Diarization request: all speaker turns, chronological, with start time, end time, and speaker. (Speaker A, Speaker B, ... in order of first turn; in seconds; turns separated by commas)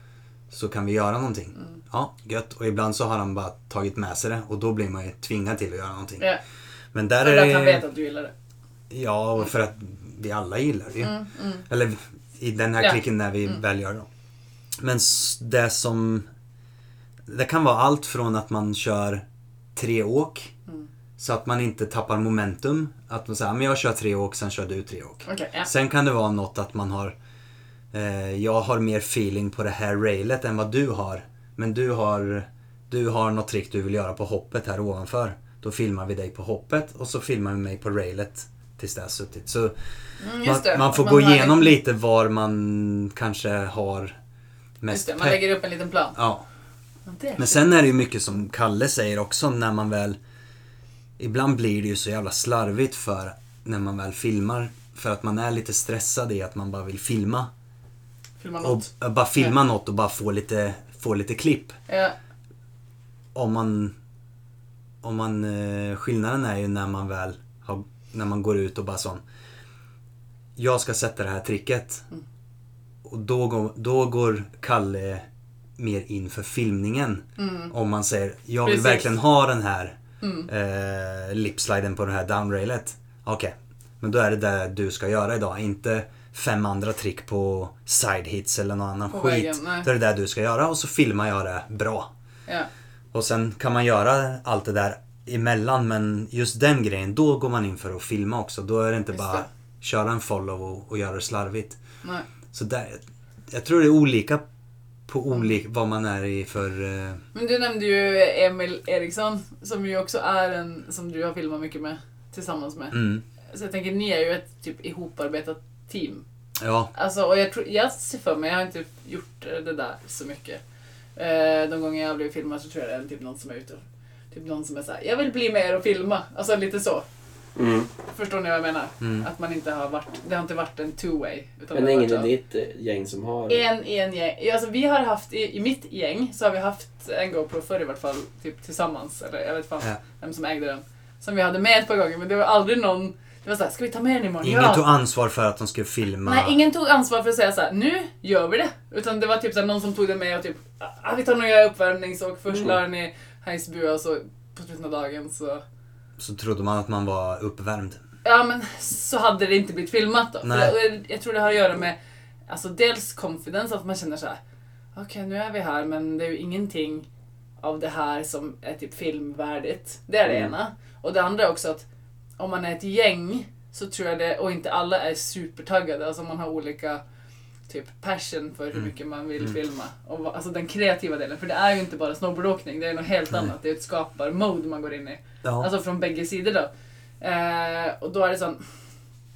Speaker A: 0.5-6.3, Speaker A: 6.9-7.8, Speaker B: 7.2-8.3, Speaker A: 8.9-14.1, Speaker B: 11.0-11.6, Speaker B: 12.8-13.6, Speaker A: 14.8-16.2, Speaker A: 17.3-19.2, Speaker A: 19.8-20.5, Speaker A: 21.2-27.1, Speaker B: 25.2-25.7, Speaker A: 27.9-39.7, Speaker B: 40.2-41.7, Speaker A: 40.4-44.1, Speaker A: 44.8-45.5, Speaker B: 44.9-46.1, Speaker A: 46.1-46.4, Speaker B: 47.1-47.6, Speaker A: 47.4-50.2, Speaker A: 51.2-57.5, Speaker B: 58.4-59.5, Speaker A: 58.6-61.8, Speaker B: 61.9-62.1, Speaker A: 63.3-63.9, Speaker A: 65.0-69.2, Speaker A: 70.6-72.0, Speaker A: 73.0-75.2, Speaker A: 75.8-80.0, Speaker B: 77.4-77.7, Speaker B: 78.6-79.1, Speaker B: 80.2-80.5, Speaker A: 80.5-92.1, Speaker B: 89.1-89.9, Speaker A: 93.1-101.8, Speaker B: 99.1-99.5, Speaker B: 102.0-102.3, Speaker A: 102.5-104.4, Speaker A: 105.1-107.2, Speaker B: 107.3-116.2, Speaker A: 112.9-113.2, Speaker A: 116.6-116.9, Speaker B: 116.9-120.6, Speaker B: 121.2-127.0, Speaker C: 127.5-127.9, Speaker B: 128.1-132.3, Speaker A: 129.0-129.3, Speaker C: 131.7-133.6, Speaker B: 133.5-144.8, Speaker A: 144.4-146.6, Speaker B: 146.2-155.6, Speaker A: 156.2-158.0, Speaker B: 158.2-161.9, Speaker A: 160.4-160.7, Speaker B: 162.5-164.4, Speaker B: 164.9-167.1, Speaker B: 167.6-171.8, Speaker B: 172.4-177.0, Speaker B: 177.7-186.7, Speaker A: 185.4-185.7, Speaker B: 187.2-188.6